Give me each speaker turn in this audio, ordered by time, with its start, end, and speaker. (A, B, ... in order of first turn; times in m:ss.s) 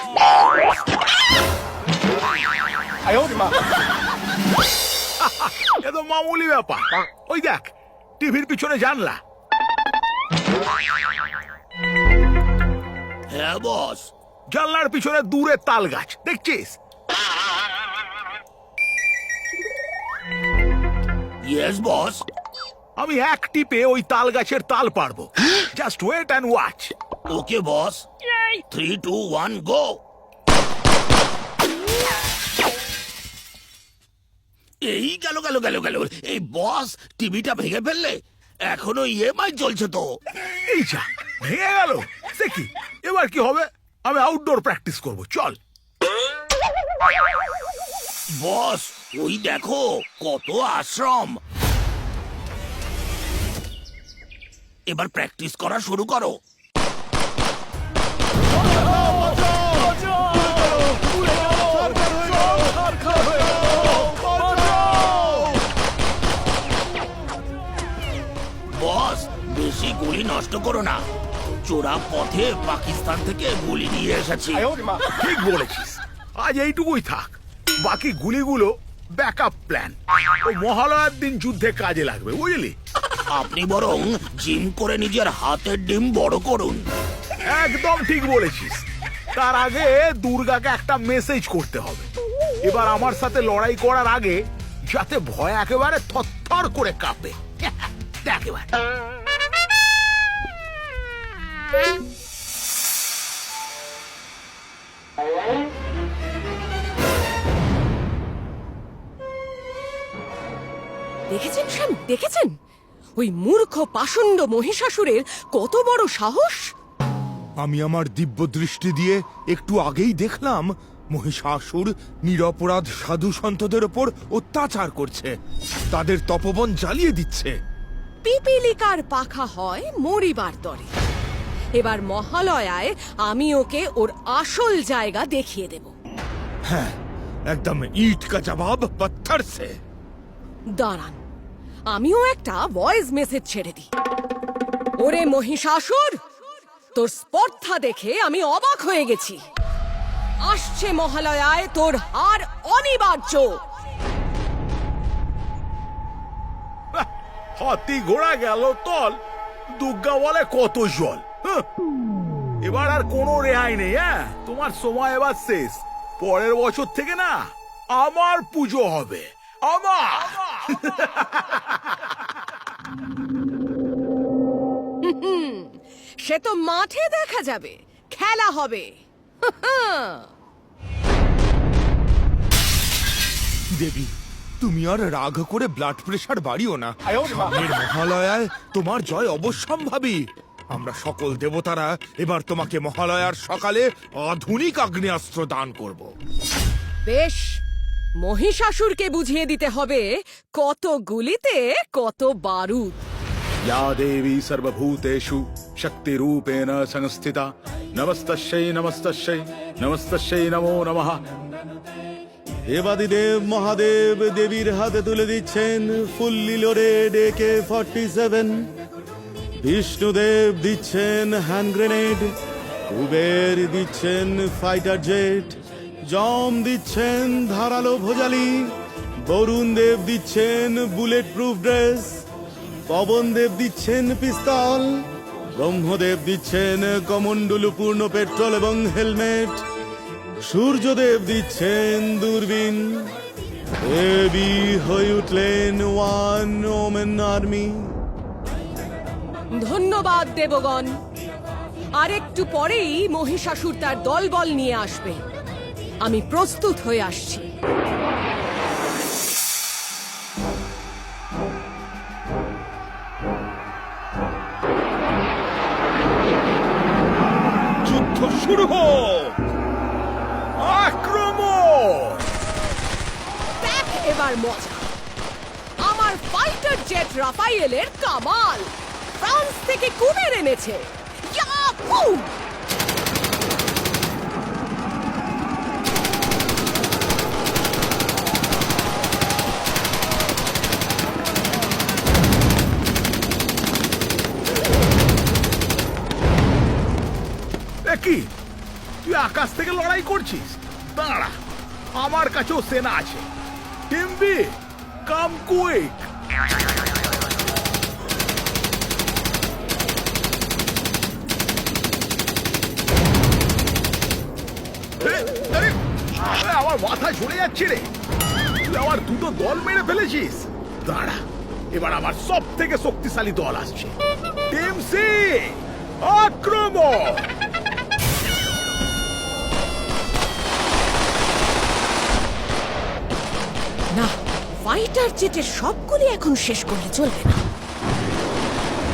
0:05.2-0:09.2 A
0:13.3-0:14.1 B
0:14.5-0:16.8 A
0:21.4-0:22.2 B
0:23.0-0:26.9 A
0:27.3-0:28.0 B
0:28.7-0:30.0 B
0:34.8-0:40.1 B
0:40.6-0:45.6 A
0:48.4-0:51.4 B
0:54.9-0:56.4 B
0:59.1-1:01.0 C
1:01.5-1:02.5 C
1:03.8-1:05.4 C
1:08.7-1:11.0 B
1:11.6-1:14.8 B
1:15.2-1:22.8 A
1:23.3-1:26.8 B
1:27.4-1:32.1 A
1:32.6-1:38.7 A
1:51.3-1:52.5 D
1:53.2-1:56.7 D
1:57.6-2:05.3 E
2:05.9-2:07.5 E
2:08.2-2:10.9 D
2:11.8-2:15.9 D
2:16.7-2:17.0 E
2:17.5-2:19.7 E
2:20.7-2:21.2 D
2:21.9-2:23.9 D
2:25.0-2:26.2 D
2:26.9-2:29.4 D
2:30.4-2:33.6 D
2:37.6-2:39.2 A
2:39.7-2:41.6 A
2:42.6-2:51.8 A
2:55.0-3:00.3 D
3:03.8-3:10.2 E
3:10.7-3:16.1 E
3:17.0-3:17.6 D
3:18.2-3:23.0 D
3:23.6-3:31.2 A
3:32.7-3:38.6 C
3:39.6-3:42.3 C
3:42.9-3:45.6 C
3:46.1-3:48.7 C
3:49.2-3:52.2 C
3:52.9-3:55.0 C
3:55.5-3:59.6 C
4:00.5-4:03.1 C
4:03.9-4:07.9 C
4:09.6-4:11.0 D
4:11.9-4:15.2 D
4:16.0-4:17.4 D
4:27.8-4:29.3 E
4:30.6-4:32.3 A
4:33.6-4:34.9 D
4:35.8-4:42.3 D
4:57.8-4:58.3 A
4:59.0-5:01.4 A
5:02.0-5:03.3 A
5:03.9-5:06.1 A
5:15.0-5:17.9 A
5:18.6-5:24.0 A
5:24.5-5:27.3 A
5:33.9-5:37.4 D